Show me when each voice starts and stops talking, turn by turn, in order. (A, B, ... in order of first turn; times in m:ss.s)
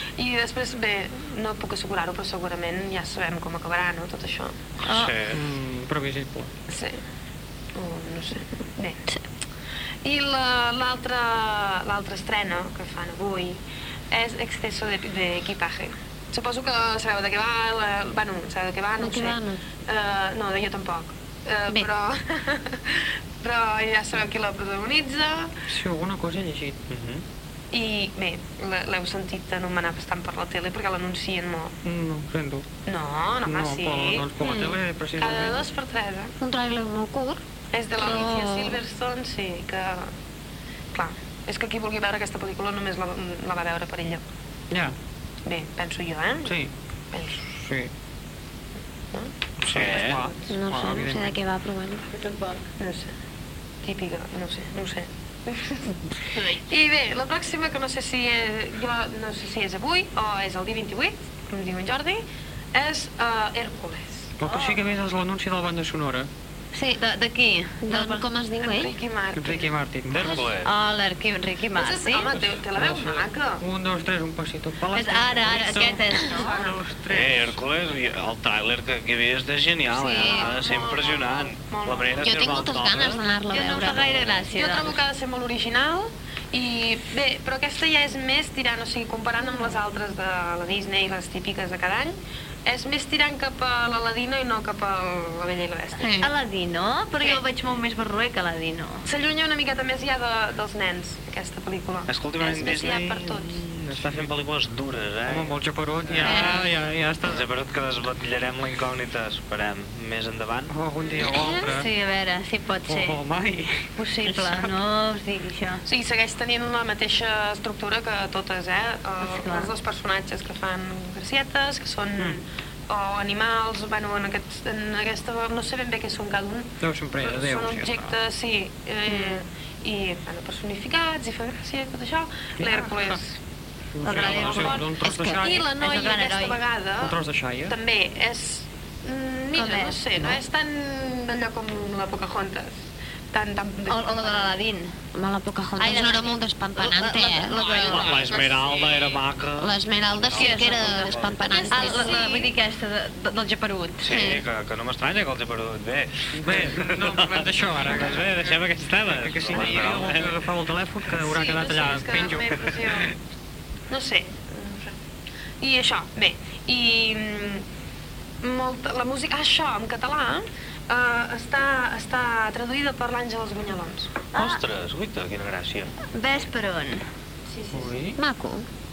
0:00.2-0:04.6 A
0:04.8-0:05.4 B
0:04.9-0:05.1 C
0:05.3-0:06.5 D
0:06.7-0:07.0 A
0:07.8-0:09.0 A
0:10.0-0:25.5 A
0:19.0-0:19.6 E
0:25.7-0:26.8 D
0:26.9-0:27.2 B
0:27.7-0:31.7 A
0:31.8-0:32.7 D
0:32.9-0:34.3 A
0:33.4-0:35.7 D
0:34.5-0:34.7 E
0:35.2-0:36.3 A
0:36.4-0:37.4 E
0:37.7-0:40.1 A
0:38.0-0:38.8 E
0:40.9-0:44.2 A
0:45.5-0:46.5 A
0:46.4-0:46.7 D
0:47.1-0:47.4 A
0:47.4-0:47.9 D
0:49.6-0:51.4 D
0:49.7-0:50.2 B
0:50.5-0:52.1 E
0:52.8-0:53.1 A
0:53.8-1:02.2 A
1:02.7-1:04.8 A
1:04.4-1:06.3 D
1:06.8-1:08.2 C
1:07.8-1:09.0 E
1:08.6-1:09.7 A
1:09.4-1:10.5 D
1:10.1-1:10.7 B
1:10.6-1:12.3 C
1:11.7-1:13.6 A
1:12.3-1:17.6 D
1:14.9-1:16.5 C
1:17.1-1:23.2 B
1:19.9-1:20.6 E
1:20.2-1:22.4 A
1:22.2-1:24.3 E
1:23.5-1:25.0 C
1:24.5-1:36.3 A
1:29.5-1:29.7 E
1:36.0-1:36.3 E
1:36.2-1:39.1 C
1:39.1-1:43.6 A
1:42.1-1:45.6 B
1:43.9-1:44.3 D
1:45.3-1:47.5 D
1:46.1-1:46.5 B
1:46.2-1:46.6 C
1:47.2-1:50.7 B
1:50.7-1:51.9 D
1:51.2-1:51.7 E
1:51.6-1:53.2 C
1:52.9-1:54.7 D
1:54.0-1:55.8 C
1:55.9-2:13.4 A
1:59.2-1:59.7 C
2:06.8-2:08.1 D
2:09.1-2:09.4 C
2:12.6-2:13.2 D
2:14.0-2:15.7 D
2:14.0-2:15.1 C
2:14.1-2:24.6 A
2:15.1-2:15.4 E
2:15.8-2:16.6 C
2:17.0-2:17.8 D
2:19.5-2:20.0 C
2:23.9-2:24.9 C
2:25.1-2:28.1 E
2:25.8-2:28.2 C
2:27.7-2:31.5 B
2:28.2-2:28.7 D
2:29.6-2:32.4 E
2:30.3-2:31.2 C
2:31.5-2:32.5 A
2:31.7-2:34.1 C
2:34.0-2:40.4 B
2:34.0-2:34.4 E
2:36.3-2:42.7 D
2:41.2-2:43.1 A
2:43.9-2:45.0 A
2:45.6-2:47.6 A
2:48.4-2:54.1 A
2:54.3-2:54.6 C
2:54.3-2:55.9 B
2:56.1-2:57.0 C
2:57.5-2:58.0 A
2:57.7-2:58.2 D
2:58.2-2:58.7 E